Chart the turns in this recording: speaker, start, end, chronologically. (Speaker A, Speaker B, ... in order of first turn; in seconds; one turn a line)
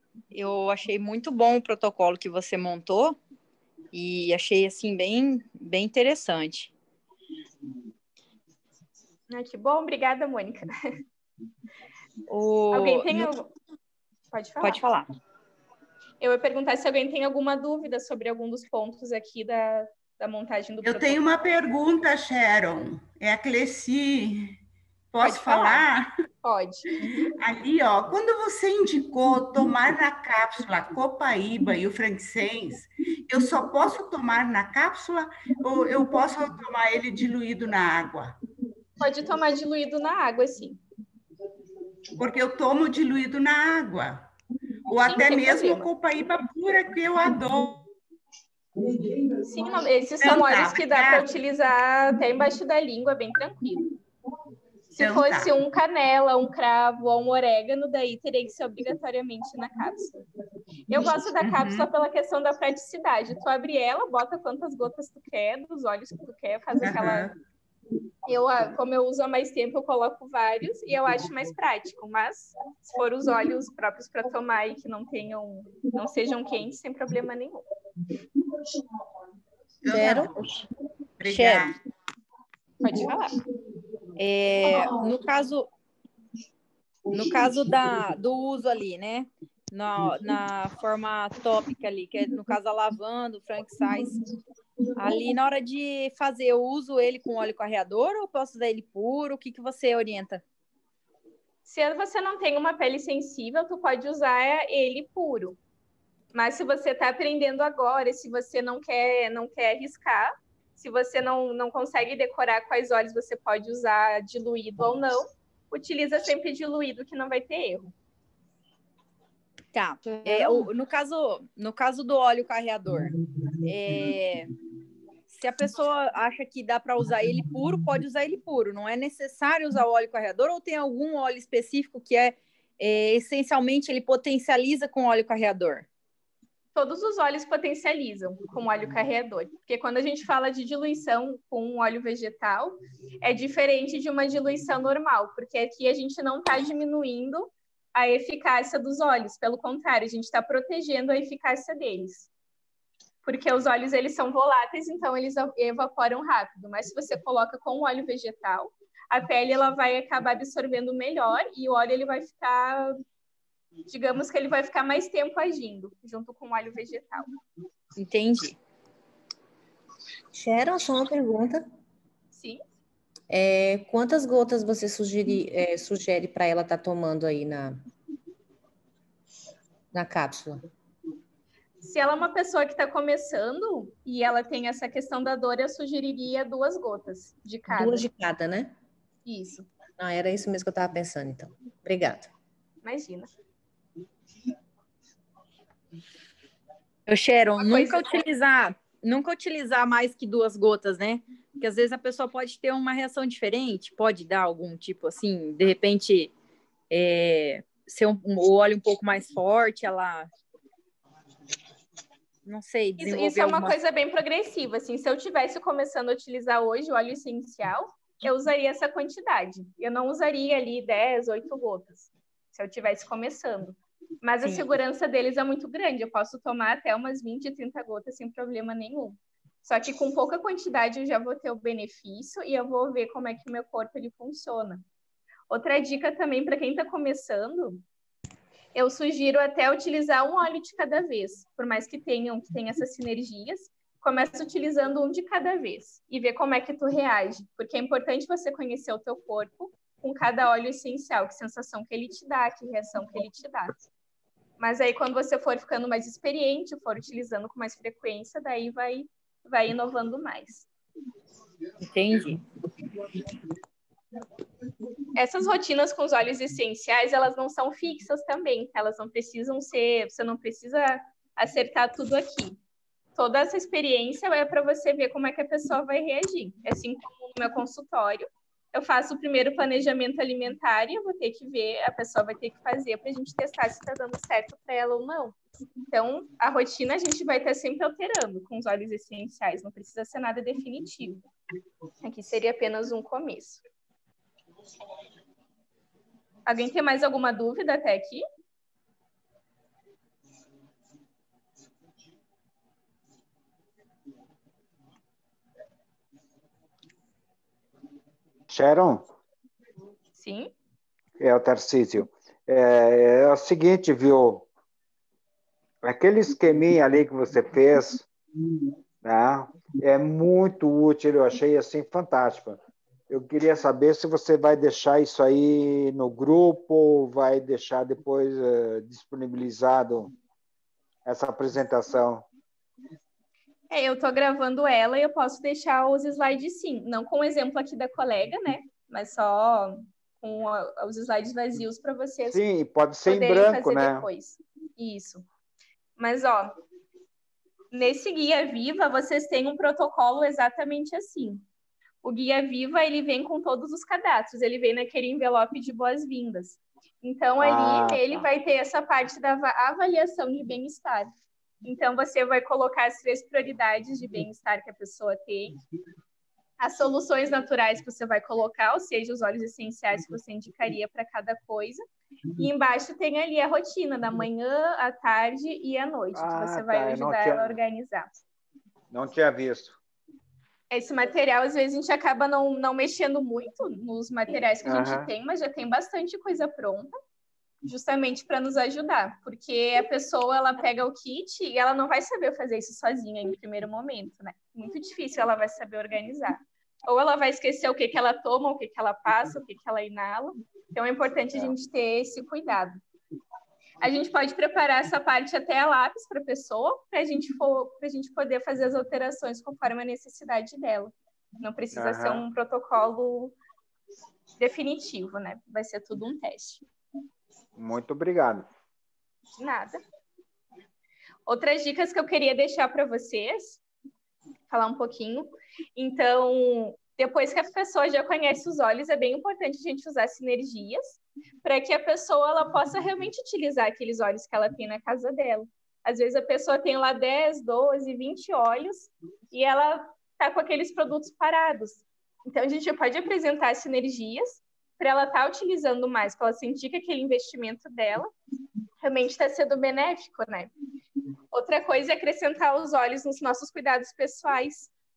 Speaker A: 0.3-3.2
Speaker A: 3.9-6.7
Speaker B: 9.3-10.7
Speaker A: 12.3-13.3
Speaker B: 12.7-13.5
Speaker B: 14.3-14.8
Speaker A: 14.6-15.1
Speaker B: 16.2-21.2
Speaker C: 20.8-24.6
Speaker C: 25.1-26.1
Speaker B: 25.2-25.8
Speaker B: 26.4-27.3
Speaker C: 27.4-38.4
Speaker B: 39.0-40.8
Speaker C: 42.2-44.3
Speaker C: 44.9-47.9
Speaker B: 45.0-45.9
Speaker B: 49.5-53.9
Speaker C: 50.2-51.3
Speaker B: 54.9-60.1
Speaker C: 55.0-55.5
Speaker B: 60.9-67.3
Speaker C: 61.4-61.9
Speaker C: 66.8-67.3
Speaker B: 68.2-77.6
Speaker C: 79.8-80.5
Speaker D: 79.9-80.3
Speaker C: 81.2-81.8
Speaker A: 81.2-81.7
Speaker B: 82.8-83.4
Speaker A: 84.2-85.7
Speaker A: 87.1-94.2
Speaker A: 95.0-100.4
Speaker B: 101.7-105.6
Speaker B: 106.3-117.9
Speaker A: 119.7-123.1
Speaker A: 123.6-124.5
Speaker A: 125.3-135.9
Speaker B: 136.7-152.3
Speaker B: 153.2-162.9
Speaker B: 163.9-167.3
Speaker A: 168.0-168.6
Speaker D: 170.3-171.7
Speaker B: 172.3-172.6
Speaker D: 173.3-177.8
Speaker D: 179.9-180.7
Speaker B: 181.8-188.1
Speaker D: 187.7-188.7
Speaker B: 189.2-189.7
Speaker D: 190.0-192.3
Speaker B: 192.8-193.3
Speaker A: 197.1-206.3
Speaker B: 197.6-198.2
Speaker A: 206.9-210.3
Speaker A: 212.4-213.8
Speaker B: 213.0-234.8
Speaker B: 235.5-237.8
Speaker B: 238.7-253.7
Speaker B: 254.6-260.7
Speaker A: 261.8-262.4
Speaker B: 265.1-272.6
Speaker B: 273.1-285.4
Speaker B: 285.9-291.2
Speaker B: 292.0-293.6
Speaker B: 296.4-298.2
Speaker E: 308.5-309.1
Speaker B: 310.2-310.5
Speaker E: 311.2-314.4
Speaker E: 315.8-318.1
Speaker E: 319.0-330.1
Speaker E: 331.1-332.3
Speaker B: 333.7-342.4
Speaker E: 342.3-344.1
Speaker B: 343.1-345.2
Speaker B: 346.0-346.5
Speaker B: 347.7-351.4
Speaker B: 352.0-361.1
Speaker E: 357.4-358.3
Speaker B: 361.6-365.5
Speaker B: 366.6-371.8
Speaker B: 372.4-378.1
Speaker E: 376.1-377.6
Speaker E: 378.9-379.8
Speaker B: 380.7-386.9
Speaker E: 384.6-385.1
Speaker B: 387.7-402.8
Speaker B: 403.8-413.3
Speaker E: 411.7-412.2
Speaker B: 414.4-416.6
Speaker E: 417.6-418.5
Speaker B: 419.4-419.8
Speaker B: 421.3-423.6
Speaker B: 424.5-448.1
Speaker B: 448.8-450.5
Speaker B: 451.3-454.7